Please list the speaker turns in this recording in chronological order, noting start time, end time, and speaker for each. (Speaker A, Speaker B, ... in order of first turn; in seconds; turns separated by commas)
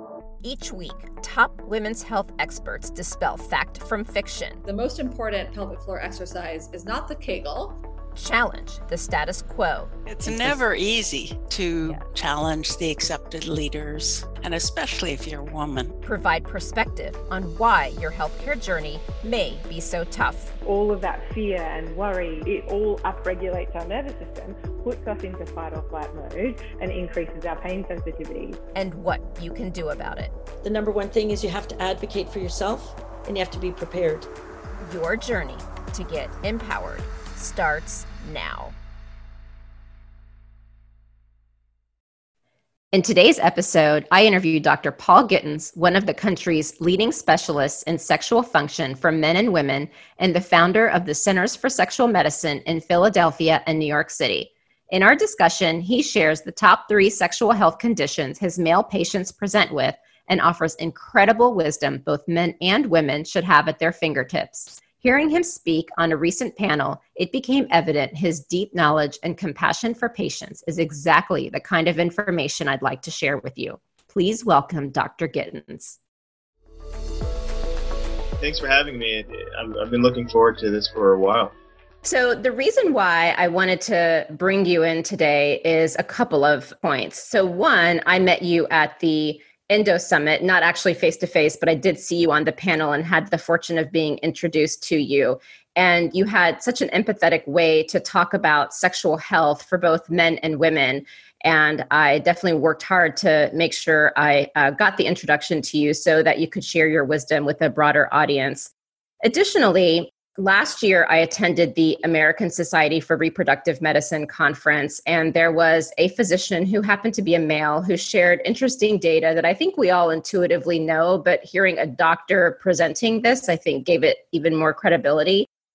Speaker A: 0.4-4.6, Speaker B: 4.7-7.8, Speaker A: 8.2-10.6, Speaker C: 10.1-15.9, Speaker A: 16.0-20.5, Speaker D: 20.6-28.6, Speaker A: 28.7-30.3, Speaker E: 30.6-34.3, Speaker A: 34.8-38.7, Speaker A: 42.9-76.0, Speaker F: 78.4-81.5, Speaker A: 82.0-108.7, Speaker A: 109.2-125.5